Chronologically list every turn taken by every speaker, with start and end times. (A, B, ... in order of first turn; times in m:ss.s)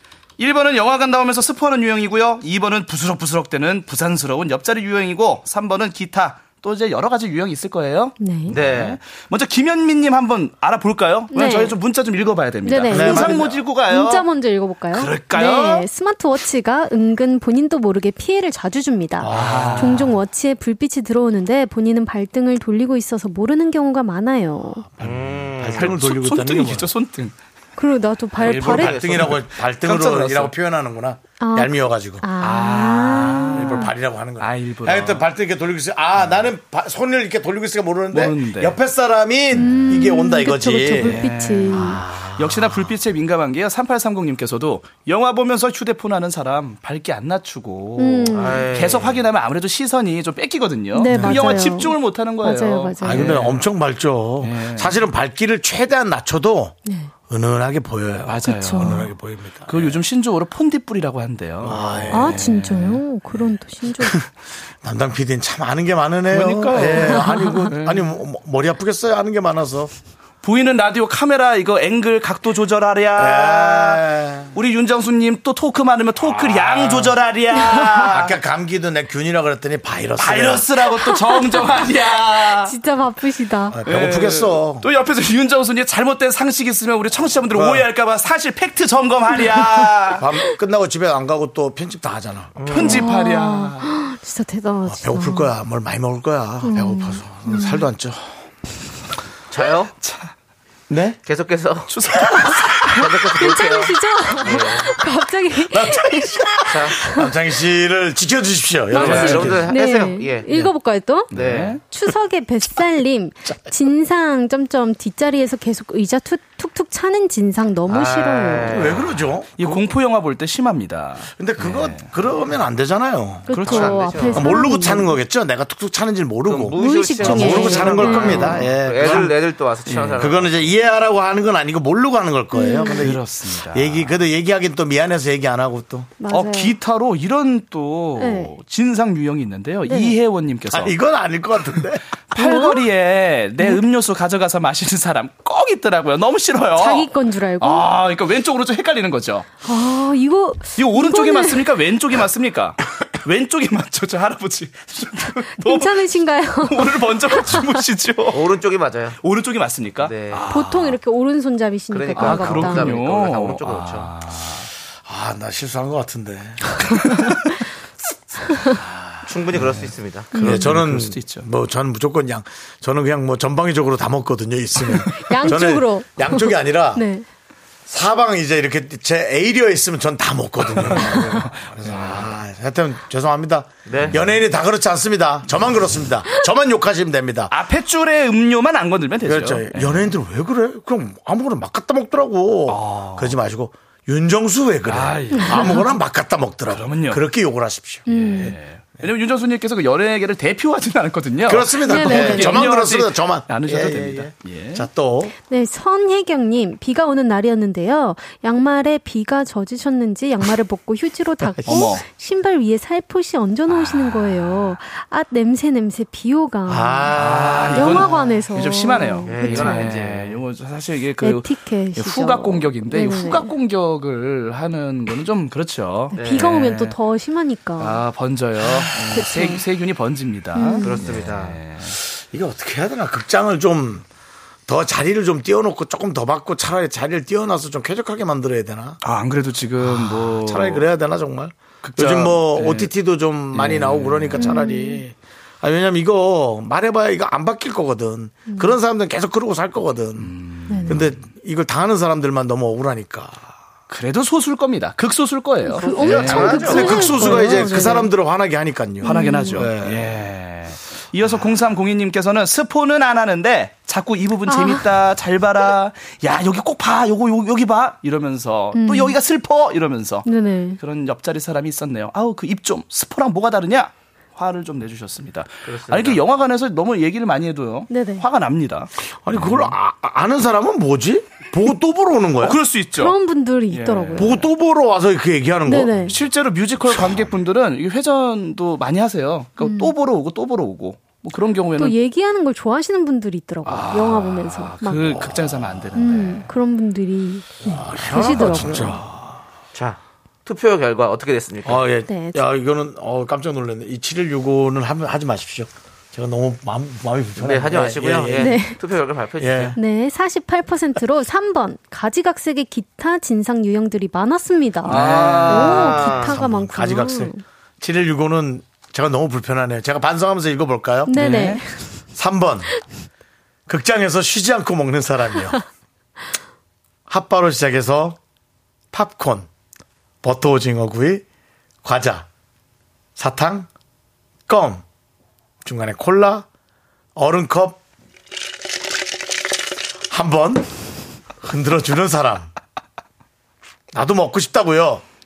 0:00.4-0:14.2 A
0:08.2-0:08.6 B
0:08.5-0:09.0 C
0:11.3-0:11.8 B
0:12.6-0:24.8 B
0:12.9-0:13.6 D
0:14.9-0:15.9 A
0:19.2-0:20.1 D
0:19.3-0:20.1 A
0:24.9-0:26.9 D
0:25.0-0:26.0 C
0:25.7-0:27.4 A
0:27.8-0:29.0 B
0:28.4-0:30.5 A
0:28.4-0:32.2 D
0:28.5-0:29.3 C
0:31.4-0:33.9 B
0:32.4-0:35.2 A
0:33.5-0:41.2 D
0:38.1-0:38.8 A
0:39.5-0:42.0 B
0:39.6-0:40.0 A
0:40.9-0:53.6 A
0:41.7-0:42.9 D
0:48.0-0:48.6 B
0:48.3-0:49.2 C
0:50.9-0:53.3 B
0:51.1-0:51.4 D
0:53.0-0:56.7 D
0:54.4-0:55.0 A
0:57.3-1:00.0 D
0:58.2-0:59.1 A
0:58.4-0:58.9 B
0:59.6-1:03.0 A
1:01.6-1:02.5 D
1:02.1-1:04.2 B
1:04.8-1:09.9 D
1:06.3-1:08.2 A
1:10.4-1:14.0 A
1:13.2-1:14.5 D
1:14.5-1:18.4 A
1:16.2-1:17.2 D
1:17.5-1:18.1 B
1:18.0-1:20.6 D
1:20.2-1:22.8 A
1:21.0-1:21.6 B
1:22.5-1:23.8 B
1:23.7-1:24.8 D
1:23.8-1:30.3 A
1:27.5-1:27.9 D
1:30.2-1:32.6 D
1:32.6-1:33.0 C
1:32.6-1:33.9 A
1:32.8-1:35.5 B
1:34.8-1:38.3 D
1:36.6-1:37.9 B
1:39.5-1:39.9 C
1:40.0-1:40.3 A
1:40.9-1:41.2 D
1:41.2-1:41.9 C
1:41.9-1:42.9 A
1:42.8-1:44.9 C
1:43.3-1:46.4 B
1:45.7-1:49.7 D
1:46.7-1:47.0 C
1:46.9-1:47.3 B
1:48.9-1:50.6 C
1:48.9-1:49.7 A
1:49.0-1:58.8 B
1:51.3-1:51.8 C
1:51.3-1:51.8 A
1:57.9-1:59.1 C
1:58.6-1:59.9 D
1:59.6-2:02.1 A
2:01.4-2:03.6 D
2:03.5-2:05.2 B
2:03.5-2:04.4 A
2:03.6-2:04.4 C
2:04.3-2:09.3 D
2:06.5-2:10.7 C
2:06.8-2:08.6 B
2:07.4-2:09.3 A
2:09.8-2:10.3 A
2:10.2-2:16.1 D
2:12.5-2:13.0 B
2:12.9-2:14.1 A
2:16.2-2:16.8 B
2:16.3-2:20.9 A
2:18.2-2:18.5 B
2:19.8-2:20.2 B
2:20.7-2:22.0 D
2:22.3-2:27.1 A
2:22.4-2:22.8 B
2:26.8-2:27.9 B
2:27.6-2:29.5 A
2:29.6-2:31.6 B
2:30.8-2:38.5 A
2:35.6-2:37.7 B
2:38.3-2:39.2 C
2:39.2-2:41.0 A
2:40.0-2:40.5 C
2:40.5-2:43.0 B
2:41.9-2:44.1 C
2:42.2-2:44.7 A
2:45.0-2:46.8 D
2:48.5-2:48.8 B
2:49.2-2:50.3 C
2:50.3-2:50.7 B
2:50.3-2:51.4 A
2:50.4-2:57.0 D
2:55.2-2:57.2 B
2:57.9-3:07.5 D
3:00.8-3:02.3 A
3:03.8-3:04.2 C
3:07.5-3:10.1 A
3:09.2-3:18.0 D
3:12.7-3:13.4 A
3:14.8-3:15.9 A
3:15.4-3:15.8 B
3:16.7-3:17.2 A
3:18.1-3:18.6 B
3:18.1-3:24.9 A
3:21.4-3:25.3 D
3:21.8-3:22.6 B
3:25.5-3:37.2 B
3:31.6-3:31.9 D
3:31.6-3:32.0 A
3:33.7-3:34.8 A
3:36.6-3:38.1 D
3:37.1-3:47.0 A
3:37.7-3:39.9 B
3:39.2-3:40.4 C
3:41.2-3:43.5 B
3:46.1-3:48.0 B
3:46.1-3:46.5 C
3:47.8-3:52.0 A
3:49.0-3:49.6 B
3:50.5-3:51.1 B
3:50.8-3:51.6 C
3:52.2-3:54.0 D
3:54.7-3:59.0 D
3:59.0-4:00.8 A
3:59.8-4:10.3 D
4:01.8-4:02.9 A
4:03.5-4:04.5 A
4:04.4-4:05.0 B
4:10.2-4:11.2 A
4:10.7-4:11.0 B
4:10.9-4:13.4 D
4:13.9-4:17.8 A
4:15.6-4:18.1 B
4:15.8-4:17.2 C
4:16.1-4:20.1 D
4:19.0-4:19.7 B
4:19.1-4:39.7 A
4:24.5-4:24.8 B
4:28.7-4:29.2 B
4:30.2-4:30.8 B
4:35.6-4:36.2 C
4:37.9-4:38.2 B
4:39.2-4:42.6 D
4:42.4-4:43.2 A
4:42.9-4:44.3 B
4:43.7-4:44.4 A
4:44.2-4:46.1 D
4:45.6-4:46.1 B
4:46.0-4:52.0 A
4:49.6-4:49.9 B
4:51.8-4:55.2 B
4:53.6-4:56.5 A
4:55.3-4:55.6 D
4:55.9-4:59.0 B
4:57.6-4:59.4 D
4:59.7-5:01.8 C
5:01.6-5:08.6 D
5:02.0-5:02.4 B
5:07.4-5:09.8 C
5:08.4-5:08.8 B
5:09.4-5:09.8 D
5:09.7-5:17.4 B
5:14.8-5:16.1 A
5:14.9-5:16.3 C
5:16.0-5:21.2 D
5:21.1-5:21.7 B
5:21.1-5:21.6 A
5:22.1-5:22.7 D
5:23.7-5:25.6 D
5:27.1-5:28.2 D
5:28.9-5:29.5 D
5:30.2-5:31.2 D
5:31.8-5:32.3 D
5:33.2-5:33.7 D
5:34.5-5:34.8 D
5:35.6-5:36.4 D
5:37.2-5:37.8 D
5:40.1-5:40.7 D
5:41.4-5:42.5 D
5:43.9-5:45.0 D